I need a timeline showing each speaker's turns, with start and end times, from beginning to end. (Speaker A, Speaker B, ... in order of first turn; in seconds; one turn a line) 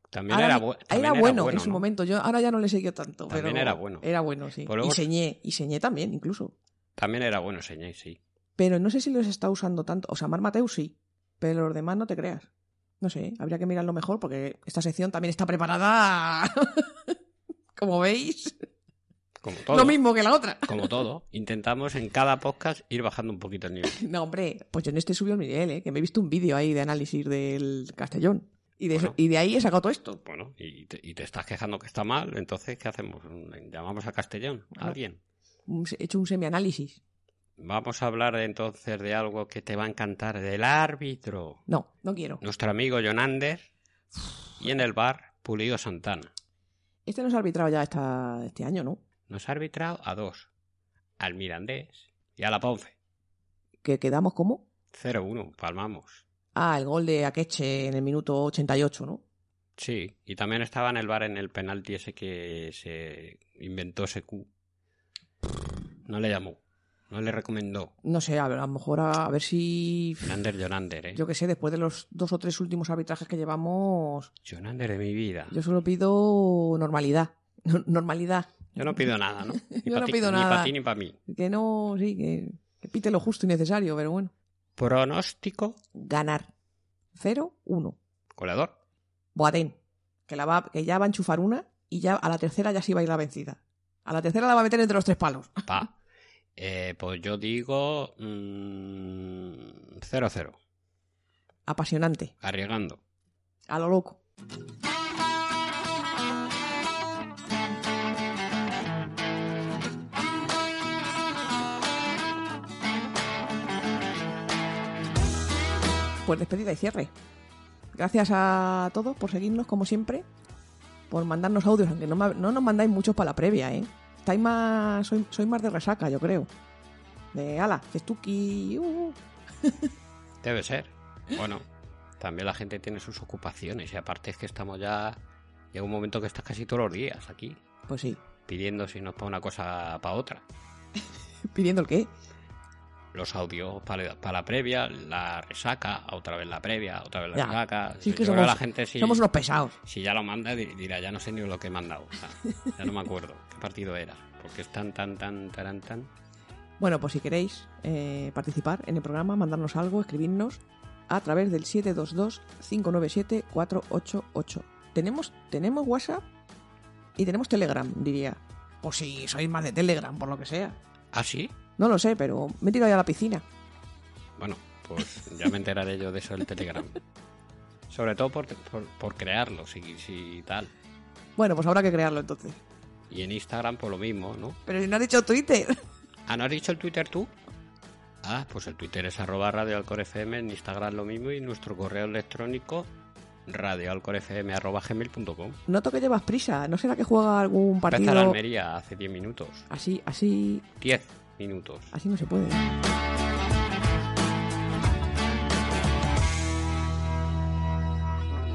Speaker A: 0.1-1.8
Speaker B: 0.3-6.5
Speaker A: 3.3-4.1
Speaker A: 4.6-5.1
Speaker A: 7.0-8.2
Speaker B: 8.6-12.5
Speaker B: 13.0-17.1
Speaker B: 17.8-18.6
Speaker A: 19.4-20.0
Speaker B: 19.7-21.0
Speaker A: 20.6-24.0
Speaker B: 23.9-30.2
Speaker A: 30.2-35.2
Speaker B: 35.7-37.0
Speaker A: 37.6-41.6
Speaker B: 41.7-42.4
Speaker A: 42.4-43.7
Speaker A: 44.6-46.3
Speaker B: 47.0-49.0
Speaker A: 49.3-50.5
Speaker A: 51.2-52.9
Speaker B: 53.8-54.6
Speaker A: 54.9-56.2
Speaker B: 56.5-59.2
Speaker A: 59.8-64.5
Speaker A: 66.0-67.9
Speaker B: 68.0-70.4
Speaker A: 70.2-71.2
Speaker B: 71.1-74.3
Speaker A: 74.4-75.5
Speaker B: 75.5-78.8
Speaker A: 78.8-81.2
Speaker B: 79.5-80.7
Speaker B: 81.3-84.3
Speaker A: 84.8-85.8
Speaker B: 85.9-86.5
Speaker B: 87.1-88.0
Speaker A: 88.3-88.7
Speaker B: 89.3-89.8
Speaker B: 90.3-95.8
Speaker A: 95.7-95.9
Speaker A: 96.5-100.6
Speaker B: 101.7-102.3
Speaker A: 102.4-103.0
Speaker B: 103.7-104.2
Speaker B: 116.2-117.1
Speaker B: 117.9-120.2
Speaker B: 121.1-126.5
Speaker B: 127.3-129.9
Speaker A: 130.4-131.7
Speaker A: 132.2-135.2
Speaker A: 135.7-137.6
Speaker B: 137.9-138.2
Speaker A: 138.4-140.4
Speaker B: 141.4-142.1
Speaker A: 143.1-149.2
Speaker B: 147.3-149.7
Speaker A: 149.8-156.1
Speaker B: 156.8-166.2
Speaker B: 167.2-170.8
Speaker A: 171.1-171.5
Speaker B: 171.8-173.4
Speaker A: 174.4-177.0
Speaker A: 177.9-180.7
Speaker B: 181.4-182.6
Speaker A: 183.1-184.6
Speaker B: 184.7-185.8
Speaker A: 186.3-187.3
Speaker A: 188.2-192.9
Speaker A: 193.4-195.6
Speaker B: 195.7-198.4
Speaker A: 197.9-199.7
Speaker B: 199.7-200.7
Speaker A: 200.8-201.9
Speaker B: 201.9-202.6